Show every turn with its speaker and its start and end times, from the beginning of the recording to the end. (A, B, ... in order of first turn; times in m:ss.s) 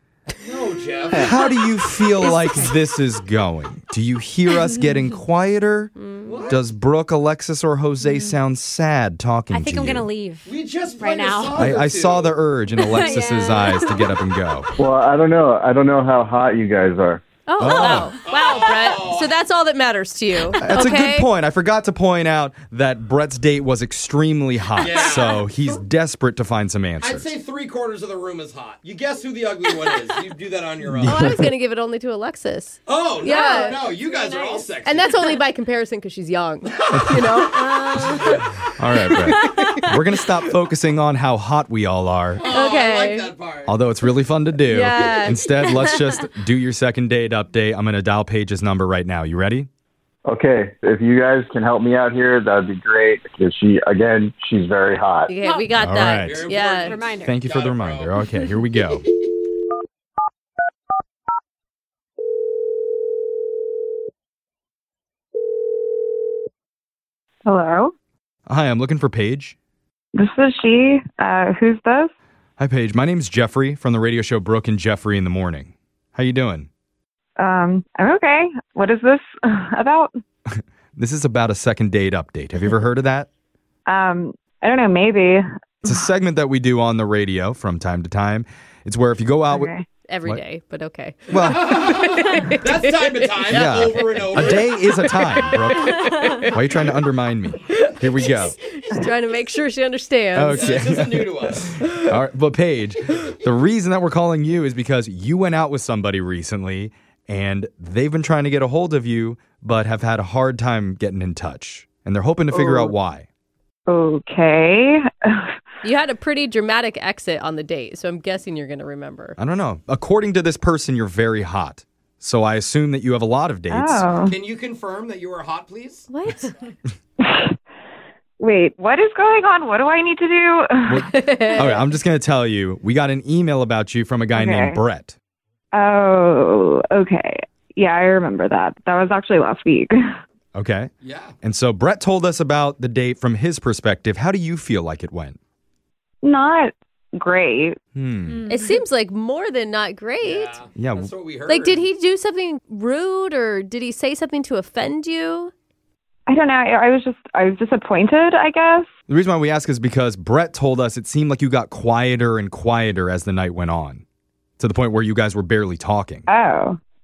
0:00.4-0:01.3 A
0:01.2-0:05.9 B
0:02.2-0:02.7 C
0:06.0-0:06.5 D
0:06.2-0:06.6 A
0:06.5-0:10.1 B
0:08.0-0:08.4 C
0:09.5-0:11.7 C
0:10.5-0:12.4 A
0:11.6-0:14.7 B
0:12.8-0:14.1 C
0:14.8-0:17.2 E
0:17.5-0:21.3 D
0:17.6-0:18.2 C
0:17.6-0:18.2 B
0:18.2-0:19.3 A
0:20.6-0:27.3 B
0:24.8-0:25.5 A
0:27.0-0:31.2 A
0:30.9-0:31.5 B
0:31.1-0:33.9 D
0:32.9-0:35.2 A
0:33.2-0:34.7 C
0:34.8-0:39.9 D
0:36.7-0:37.2 A
0:37.6-0:38.2 C
0:38.2-0:38.4 A
0:38.8-0:42.4 B
0:42.4-0:43.8 A
0:42.5-0:43.3 D
0:43.7-0:49.7 B
0:44.6-0:45.8 D
0:50.3-0:55.3 E
0:55.3-0:57.0 D
0:55.4-0:55.8 C
0:55.8-0:56.5 B
0:56.2-0:58.2 A
0:56.6-0:57.3 C
0:57.2-0:59.0 B
1:07.5-1:07.9 F
1:08.5-1:09.6 B
1:10.2-1:12.1 F
1:12.6-1:16.7 B
1:17.4-1:20.1 F
1:20.5-1:23.3 B
1:23.9-1:25.9 F
1:25.8-1:29.7 B
1:29.5-1:29.9 F
1:30.1-1:33.6 D
1:31.3-1:31.8 B
1:31.4-1:34.9 A
1:33.5-1:38.6 B
1:34.2-1:36.6 D
1:37.7-1:40.7 D
1:40.4-1:53.3 B
1:40.5-1:41.7 A
1:52.5-1:52.9 F
1:53.9-1:55.5 F
1:55.8-1:59.4 D
1:59.4-2:04.1 B
2:03.7-2:04.4 F
2:04.2-2:06.1 A
2:06.1-2:06.5 D
2:07.2-2:07.6 F
2:08.4-2:11.1 F
2:10.9-2:15.2 B
2:11.1-2:11.8 D
2:14.3-2:14.8 F
2:15.7-2:20.2 F
2:20.6-2:20.9 B
2:21.0-2:21.4 A
2:21.4-2:25.4 B
2:26.2-2:27.8 F
2:28.0-2:28.5 B
2:28.3-2:28.8 C
2:28.5-2:30.7 D
2:30.2-2:31.8 A
2:30.8-2:31.1 B
2:31.5-2:35.5 D
2:36.3-2:38.9 F
2:39.1-2:44.0 B
2:44.6-2:46.3 B
2:46.3-2:46.8 F